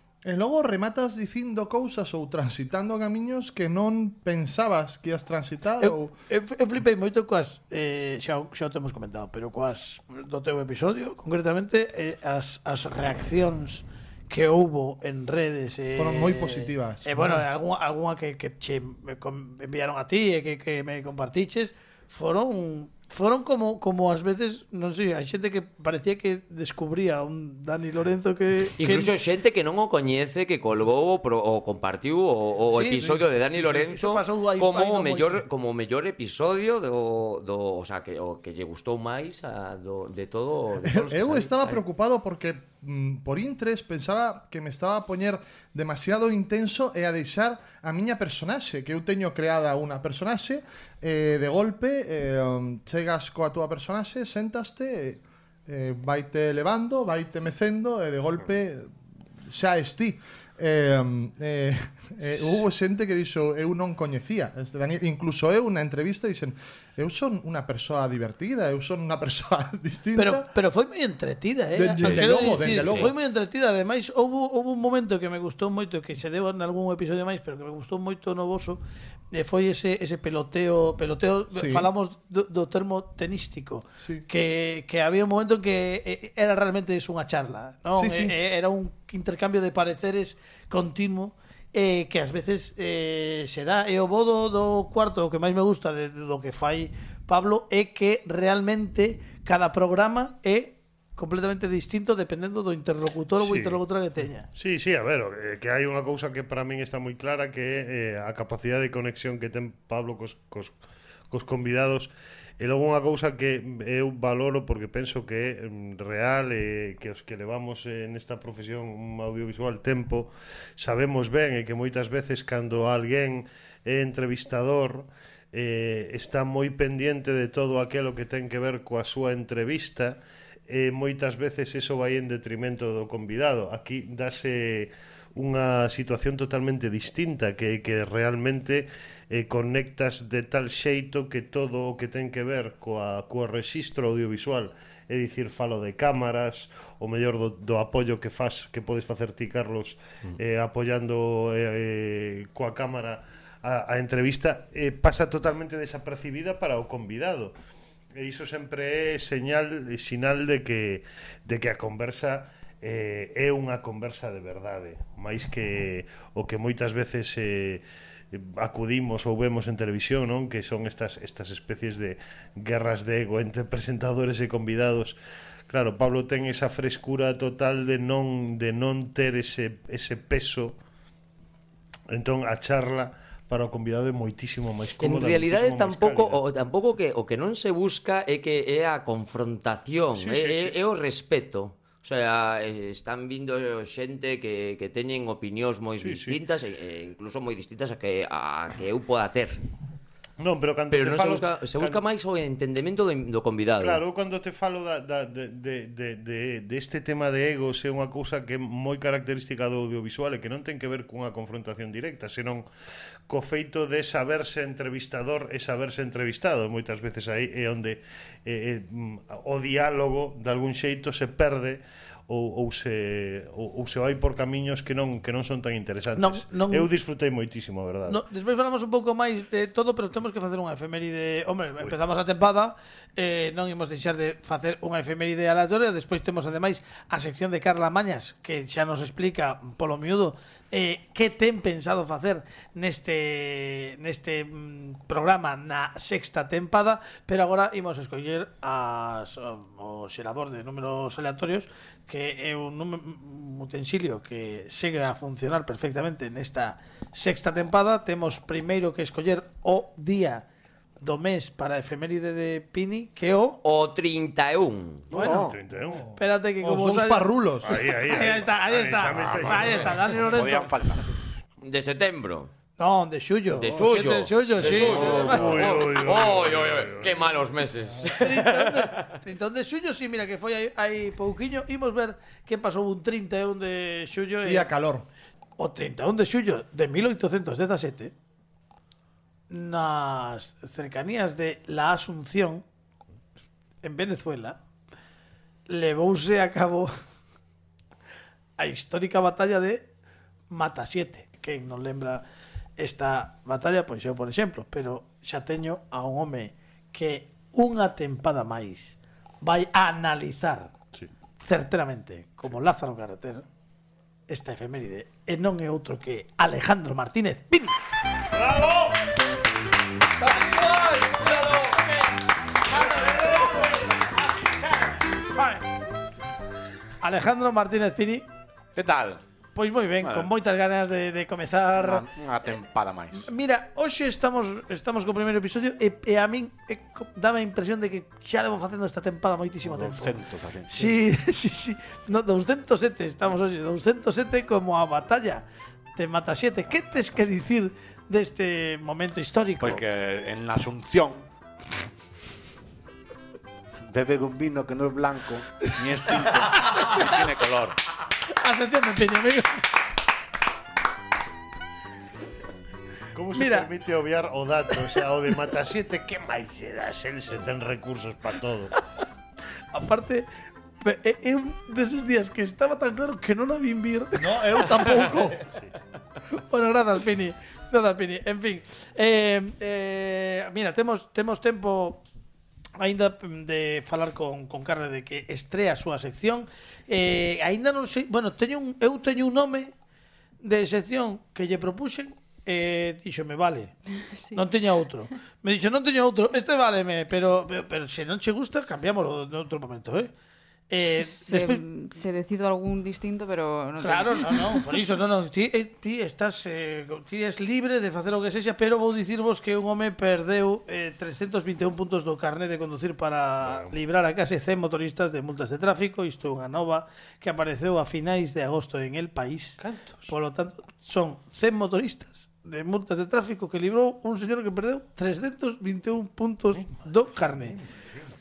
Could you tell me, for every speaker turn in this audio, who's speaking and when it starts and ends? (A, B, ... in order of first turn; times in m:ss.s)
0:00.2-0:06.1 A
0:05.8-0:29.1 B
0:16.0-0:17.4 A
0:28.8-0:41.8 C
0:32.7-0:35.4 B
0:40.8-0:58.9 A
0:59.4-1:10.5 A
1:10.2-1:18.8 B
1:11.7-1:13.1 A
1:12.0-1:13.1 C
1:19.3-1:44.5 B
1:21.5-1:21.9 A
1:24.0-1:24.2 A
1:27.9-1:28.3 A
1:43.4-1:43.8 D
1:44.5-1:50.7 D
1:51.3-2:10.2 D
2:10.7-2:37.5 D
2:38.1-2:55.1 D
2:55.7-3:00.8 D
3:02.1-3:06.4 D
3:05.0-3:19.6 C
3:10.1-3:10.8 D
3:16.0-3:16.4 D
3:20.4-3:22.0 D
3:20.9-3:24.0 C
3:23.8-3:32.6 D
3:33.3-3:48.2 D
3:46.2-3:46.9 B
3:48.0-4:20.4 B
4:21.0-4:23.6 B
4:23.6-4:25.1 C
4:25.1-4:25.4 B
4:25.1-4:25.6 E
4:25.2-4:26.0 D
4:25.9-4:27.9 A
4:26.2-4:27.3 B
4:27.6-4:30.1 D
4:28.1-4:30.7 B
4:29.5-4:31.0 E
4:31.6-4:32.5 C
4:32.8-4:35.6 B
4:33.5-4:39.1 C
4:34.7-4:37.2 D
4:34.8-4:35.5 E
4:38.0-4:44.7 B
4:44.4-4:45.0 A
4:45.6-4:48.1 B
4:49.5-4:52.6 B
4:53.8-4:54.6 B
4:55.7-4:56.9 B
4:58.6-4:59.9 B
5:00.5-5:02.2 B
5:02.8-5:10.7 B
5:11.4-5:13.4 B
5:14.3-5:17.7 B
5:18.3-5:19.0 D
5:20.3-5:21.0 D
5:20.3-5:20.8 A
5:22.7-5:23.7 B
5:22.9-5:23.6 D
5:25.3-5:25.6 B
5:27.0-5:28.2 B
5:28.8-5:29.2 E
5:29.5-5:32.0 B
5:30.0-5:30.3 E
5:31.8-5:33.3 E
5:33.2-5:40.1 B
5:39.6-5:41.0 E
5:40.7-5:49.8 B
5:49.6-5:51.2 E
5:53.9-5:57.8 E
5:56.5-5:57.1 B
5:58.3-5:59.7 B
6:03.1-6:08.7 D
6:03.3-6:03.7 B
6:09.7-6:10.3 B
6:10.8-6:15.1 B
6:14.2-6:15.4 A
6:15.3-6:15.7 D
6:16.3-6:22.0 B
6:22.8-6:29.7 B
6:30.4-6:33.7 B
6:34.0-6:34.4 F
6:34.3-6:40.1 B
6:40.7-6:41.6 B
6:40.9-6:44.6 F
6:43.8-7:07.6 B
6:53.4-6:53.7 D
6:59.6-7:00.1 D
7:07.2-7:07.6 D